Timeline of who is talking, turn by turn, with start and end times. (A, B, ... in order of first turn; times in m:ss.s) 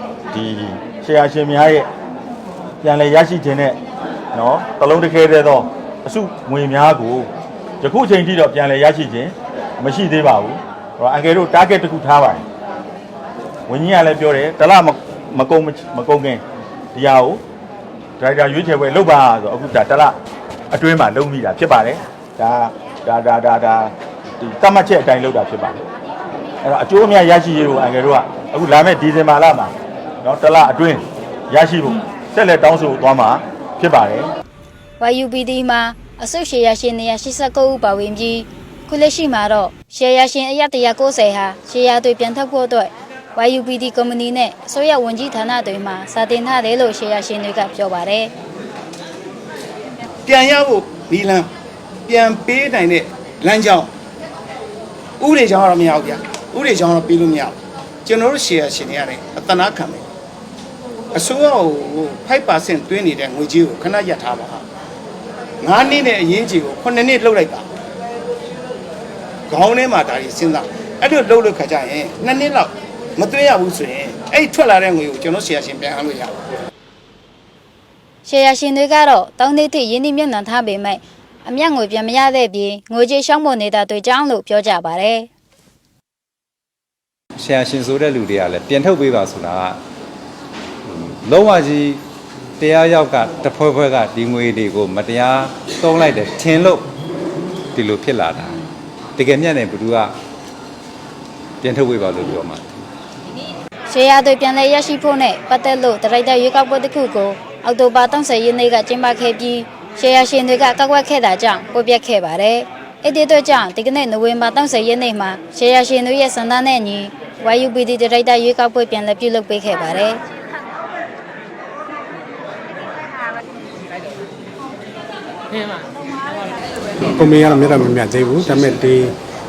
0:00.3-0:01.9 A
0:02.8-0:03.8 A
0:04.3-0:07.3 A
0:07.8-0:12.4 A
0:13.7-0:16.4 A
0:16.9-0:17.4 A
0:18.2-0:20.2 A
0:20.7-0:25.8 A
0:26.6-0:34.3 A
0:35.0-0:48.3 B
0:50.3-0:51.5 C
0:52.1-0:53.9 C
0:55.2-1:00.0 C
1:01.1-1:04.6 C
1:05.6-1:07.7 C
1:09.5-1:16.4 C
1:18.2-1:25.3 B
1:27.4-1:29.8 D
1:30.9-1:32.0 D
1:32.6-1:36.9 D
1:37.7-1:38.6 D
1:39.2-1:40.1 D
1:41.6-1:42.6 D
1:43.9-2:00.2 B
2:07.0-2:09.2 E